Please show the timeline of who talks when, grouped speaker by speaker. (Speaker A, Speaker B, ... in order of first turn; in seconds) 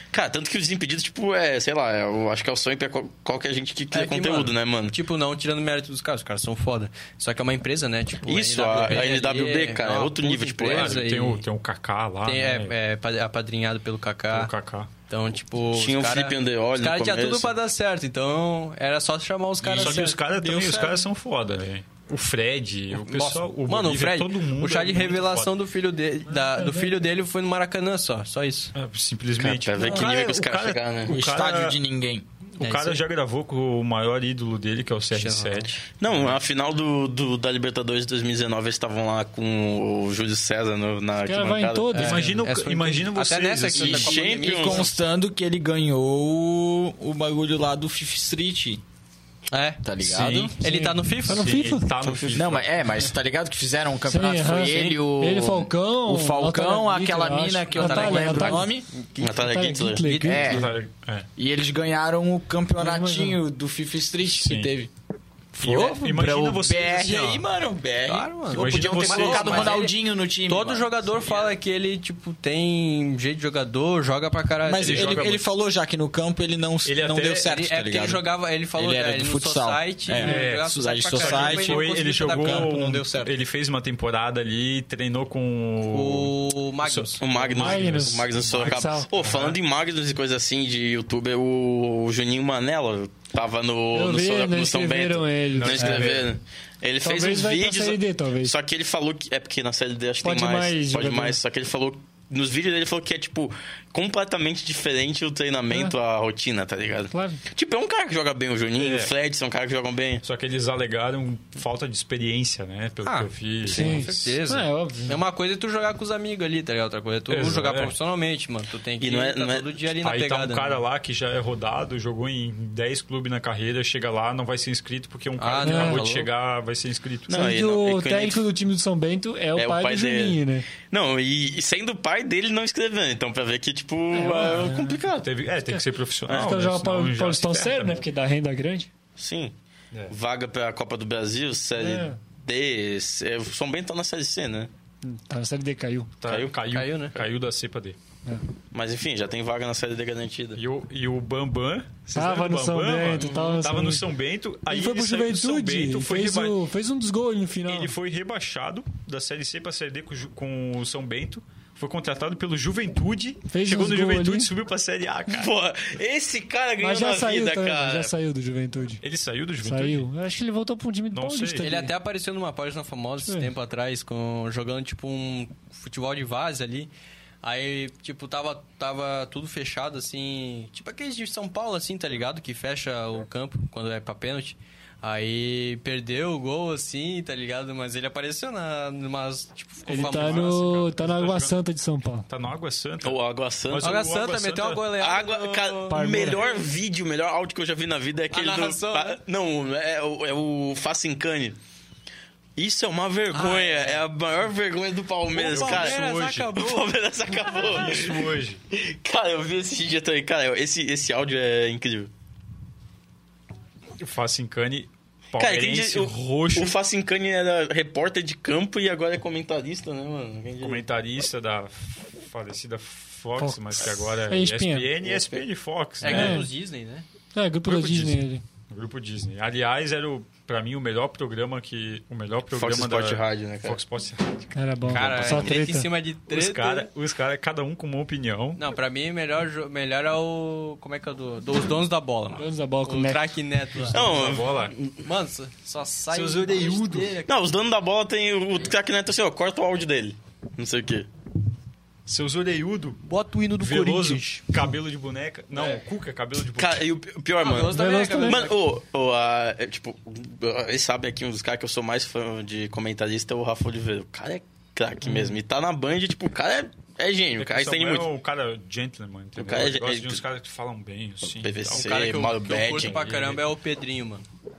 Speaker A: 0.1-5.0, 8.2-11.0, 15.7-17.5, 29.4-31.2, 36.0-42.0, 43.7-44.9, 52.0-52.4, 59.2-60.1, 87.2-110.2, 119.0-119.8, 127.3-128.4, 129.6-135.3, 136.3-136.5, 139.2-139.5, 140.1-144.7, 146.3-146.5, 148.7-150.6, 165.3-168.1, 193.0-194.0, 195.0-201.6, 202.6-206.0, 206.5-212.1, 215.4-220.8, 225.0-225.4, 232.5-233.8, 235.1-235.7, 243.9-244.9, 247.2-251.1, 256.6-268.1, 269.4-270.2, 271.3-273.1
Speaker B: 3.9-11.4, 12.2-14.5, 15.1-20.9, 23.1-28.7, 32.6-33.0, 35.1-35.8, 41.9-44.9, 49.5-49.9, 50.6-51.8, 54.7-55.0, 57.7-59.5, 60.0-60.6, 67.0-67.4, 68.1-75.4, 77.4-82.7, 85.9-87.2, 95.8-96.1, 113.0-120.8, 125.4-126.3, 146.7-147.2, 153.2-153.7, 171.6-176.9, 177.4-190.6, 193.8-196.6, 198.3-199.2, 203.3-204.0, 205.3-207.6, 226.0-227.1, 234.9-236.9, 238.6-247.3, 253.1-254.5, 257.4-258.5, 271.7-274.3
Speaker C: 10.7-12.7, 14.3-14.9, 19.6-25.5, 28.8-31.8, 32.6-36.3, 42.0-44.2, 50.0-50.6, 51.3-52.8, 60.4-61.3, 64.3-64.7, 65.6-67.4, 68.5-69.8, 74.8-75.4, 76.8-77.5, 80.2-89.6, 95.5-96.3, 108.8-109.1, 110.2-114.1, 117.3-118.0, 120.0-127.4, 135.2-138.0, 146.2-148.0, 150.6-156.6, 157.7-165.5, 169.0-170.1, 171.1-171.7, 189.9-191.7, 192.3-194.9, 205.4-206.5, 207.6-208.6, 214.0-216.7, 220.6-226.4, 227.7-235.5, 236.3-238.6, 243.8-244.8, 246.1-247.2, 252.1-253.0, 253.6-256.9, 267.4-273.4
Speaker D: 19.7-20.9, 29.8-30.1, 31.1-32.2, 43.8-48.8, 49.8-50.5, 52.3-58.9, 60.2-60.7, 61.4-64.9, 65.5-71.5, 74.7-78.2, 78.8-83.4
Speaker E: 26.3-26.9, 41.2-42.5, 50.6-51.9, 54.1-58.7, 59.3-60.7, 62.8-63.4, 87.5-89.1, 93.9-95.9, 97.0-98.5, 100.2-101.4, 105.7-105.9, 107.1-107.4, 113.7-115.2, 125.6-126.0, 127.3-130.7, 134.1-135.0, 135.7-138.9, 141.8-142.2, 145.0-146.1, 152.2-154.1, 154.7-157.9, 163.5-164.5, 166.8-169.0, 169.6-171.9, 189.9-192.3, 195.9-196.4, 223.4-224.9, 226.1-226.5, 227.3-228.4, 234.5-235.9, 242.4-243.2, 257.7-258.5